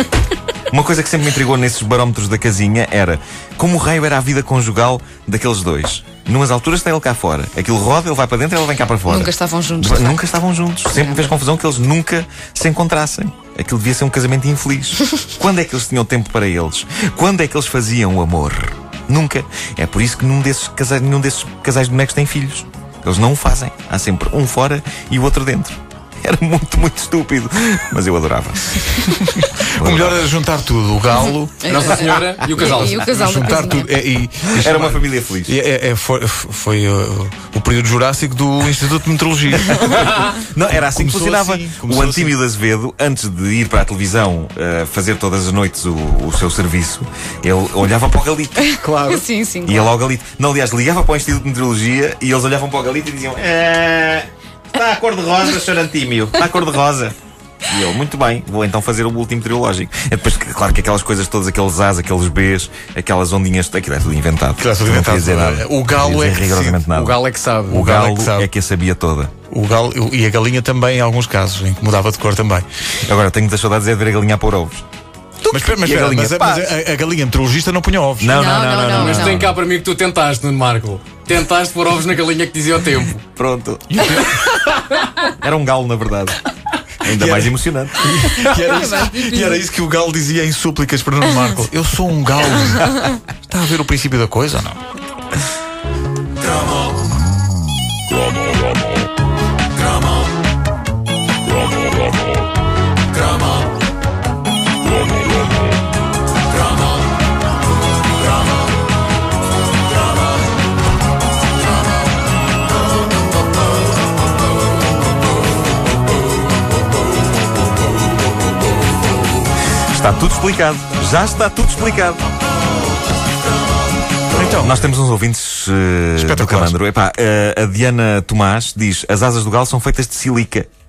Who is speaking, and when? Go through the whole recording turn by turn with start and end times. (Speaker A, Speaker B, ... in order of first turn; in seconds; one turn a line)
Speaker A: 0.7-30.3
Speaker B: 9.1-10.2
Speaker B: 10.9-11.3
Speaker C: 29.2-31.6
Speaker B: 31.6-33.9
Speaker D: 31.7-33.1
Speaker A: 31.8-32.9
Speaker C: 33.0-40.1
Speaker A: 34.5-35.5
Speaker A: 39.5-48.7
Speaker C: 40.7-42.4
Speaker B: 48.6-49.9
Speaker C: 48.8-49.2
Speaker A: 49.6-57.1
Speaker A: 57.7-67.2
Speaker C: 64.6-66.8
Speaker D: 66.9-67.8
Speaker C: 67.7-68.5
Speaker A: 67.7-69.3
Speaker C: 69.5-72.7
Speaker A: 73.0-74.8
Speaker A: 75.4-76.7
Speaker C: 75.5-78.4
Speaker A: 78.2-79.5
Speaker B: 78.3-79.5
Speaker D: 78.9-83.2
Speaker A: 83.3-84.2
Speaker C: 83.9-84.4
Speaker A: 85.4-86.4
Speaker A: 87.0-88.2
Speaker C: 87.1-94.8
Speaker B: 88.6-89.6
Speaker A: 119.9-122.2
Speaker C: 124.3-124.8
Speaker A: 124.5-130.7
Speaker C: 126.2-126.8